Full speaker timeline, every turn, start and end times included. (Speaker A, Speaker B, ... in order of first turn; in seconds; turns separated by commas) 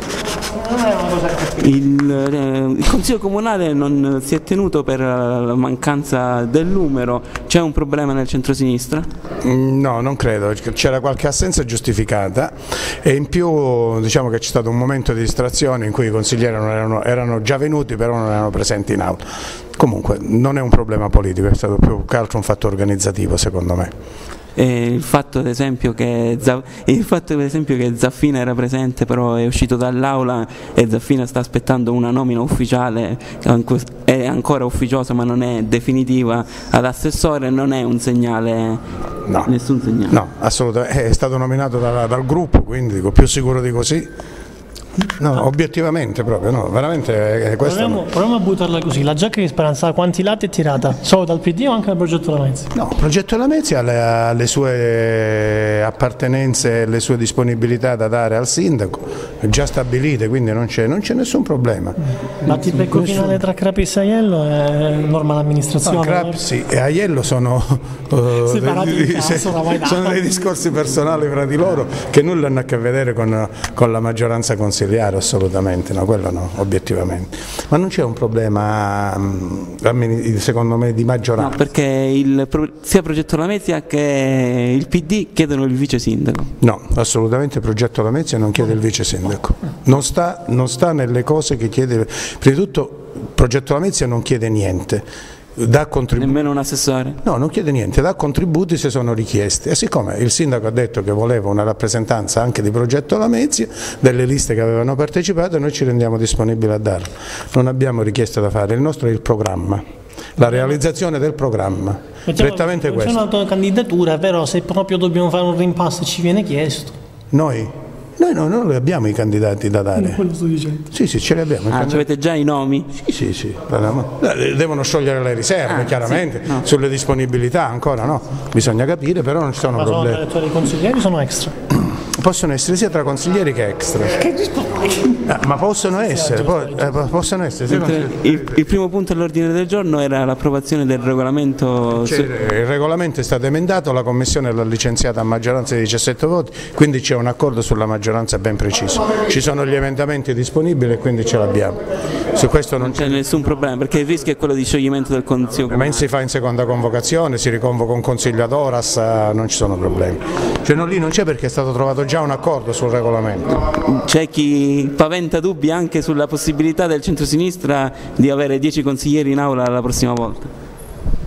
Speaker A: 0.5-1.7, Speaker B: 1.6-9.1, Speaker C: 9.4-23.9, Speaker B: 24.6-38.8, Speaker C: 39.3-39.5, Speaker B: 39.5-40.2, Speaker C: 40.1-44.1, Speaker C: 45.2-48.1, Speaker A: 47.6-52.7, Speaker C: 52.7-62.0, Speaker A: 62.4-66.4, Speaker C: 62.5-63.4, Speaker C: 65.8-81.7, Speaker A: 68.4-70.5, Speaker B: 81.4-86.5, Speaker C: 86.6-96.4, Speaker B: 96.2-97.2, Speaker C: 97.2-109.8, Speaker C: 110.4-113.2, Speaker A: 112.3-116.9, Speaker C: 117.3-120.3, Speaker A: 120.0-120.8, Speaker C: 120.9-122.0, Speaker B: 121.7-122.9, Speaker C: 123.0-130.2, Speaker B: 125.7-126.6, Speaker A: 129.7-131.5, Speaker C: 131.9-134.4, Speaker C: 135.2-138.6, Speaker A: 136.0-137.0, Speaker B: 137.7-142.3, Speaker C: 142.0-153.2, Speaker B: 152.8-156.1, Speaker C: 155.7-163.6, Speaker B: 163.6-170.5